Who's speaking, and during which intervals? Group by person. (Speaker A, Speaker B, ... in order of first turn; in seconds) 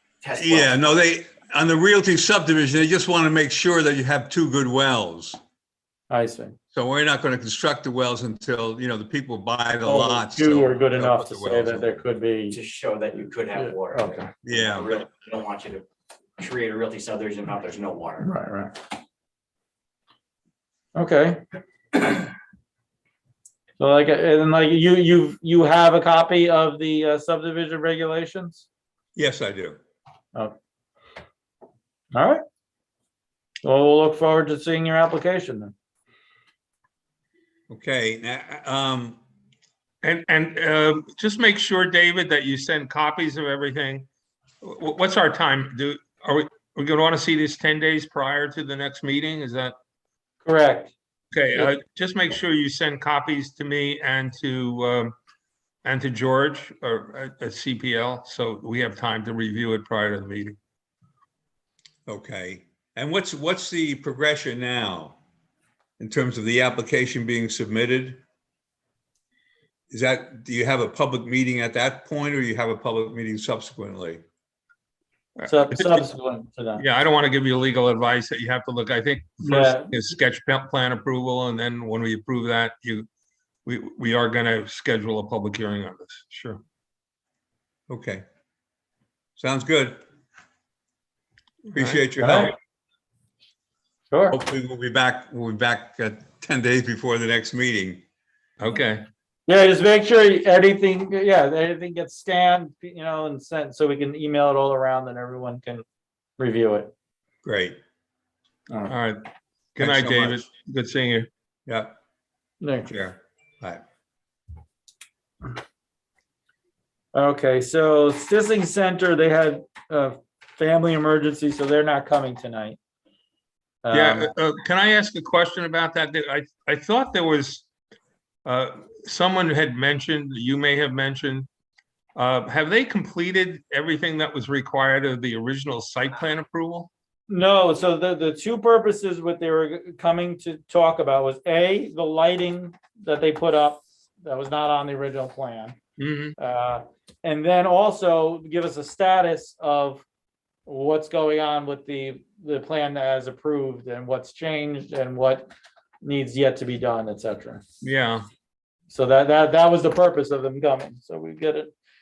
Speaker A: 0.2-0.9, 12.5-15.8, 16.4-18.3
Speaker B: 0.3-5.4, 6.7-11.9, 14.4-14.9, 29.1-29.8, 37.7-39.2, 62.1-65.2, 66.0-68.2, 69.9-74.2, 87.9-88.2, 89.4-90.0, 91.7-92.5, 94.3-98.0, 107.4-107.8, 109.8-110.5, 111.7-111.9, 112.8-113.8
Speaker C: 6.1-6.5, 9.8-12.6, 13.6-14.3, 18.2-18.8, 20.9-21.4, 23.8-28.6, 32.1-32.4, 33.6-35.7, 50.4-50.9, 75.5-76.8, 79.4-79.9, 92.2-92.5, 94.1-94.4, 99.5-105.8, 106.4-106.9, 112.6-112.9, 117.1-122.8, 123.8-124.3, 137.3-145.8, 146.4-150.0, 150.7-155.5, 156.0-157.6, 158.9-161.7
Speaker D: 40.0-44.1, 44.6-49.7, 51.3-55.1, 55.8-60.6, 75.4-76.0, 76.8-83.1, 83.7-86.6, 91.7-92.0, 98.6-99.0, 108.9-109.2, 109.8-111.3, 123.9-127.6, 128.4-131.5, 132.2-136.9, 146.0-146.3, 157.8-158.3